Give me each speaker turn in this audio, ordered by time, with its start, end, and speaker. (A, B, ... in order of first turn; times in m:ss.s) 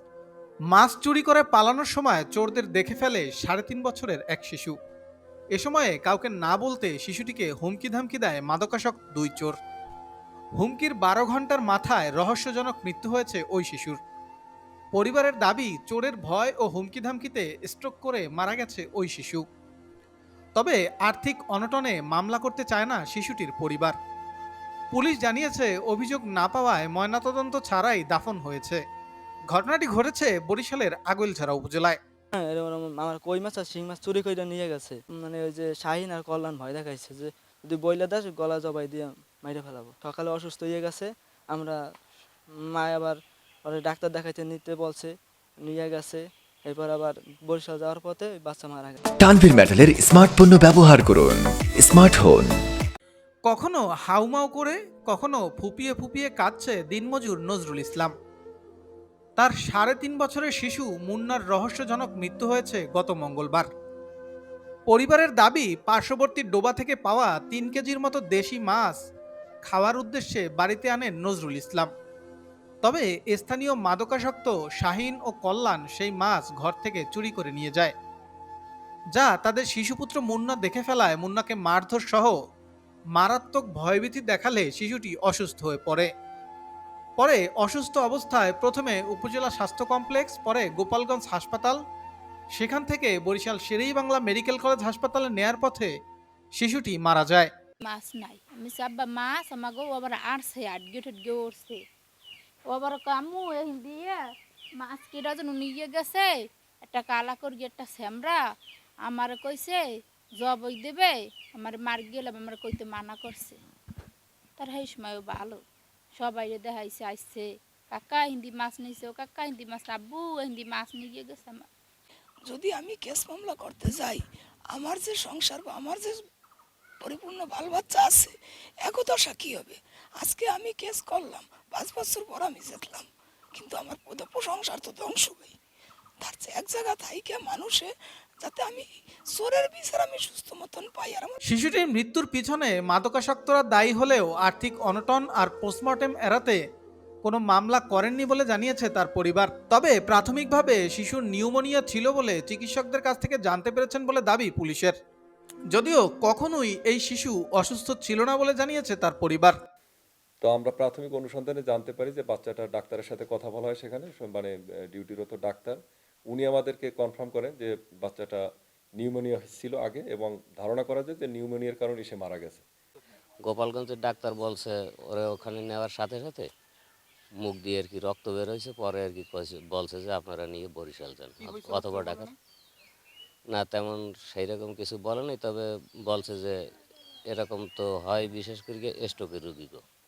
0:00.7-0:04.8 A
0:05.5-0:09.6 A
0:10.6-0:14.0 A
0:14.9-0:19.4 A
0:20.6-0:24.0 A
0:24.9-0:28.8 A
0:29.5-0:32.0 A
0:32.4-0:41.1 B
0:42.8-0:43.2 B
0:43.7-0:45.1 B
0:45.7-0:49.0 B
0:49.2-0:52.5 C
0:53.4-0:58.1 A
0:59.4-1:03.7 A
1:04.9-1:09.0 A
1:09.6-1:11.9 A
1:12.8-1:17.9 A
1:19.1-1:22.4 A
1:23.2-1:26.1 A
1:27.2-1:31.8 A
1:32.6-1:35.9 A
1:36.6-1:37.5 A
1:37.8-1:41.8 D
1:42.7-1:44.2 D
1:44.8-1:46.3 D
1:46.8-1:48.4 D
1:49.1-1:49.8 D
1:50.4-1:53.6 D
1:54.6-1:55.6 D
1:56.2-2:01.6 D
2:02.5-2:06.2 E
2:07.0-2:08.3 E
2:08.9-2:15.5 E
2:16.2-2:17.9 E
2:18.4-2:21.4 E
2:21.5-2:26.6 A
2:27.2-2:35.0 A
2:35.7-2:39.6 A
2:40.4-2:45.8 F
2:46.3-2:48.4 F
2:49.0-2:52.6 F
2:53.4-2:56.5 G
2:57.4-3:02.3 G
3:01.4-3:02.3 A
3:03.5-3:06.5 G
3:07.3-3:09.8 G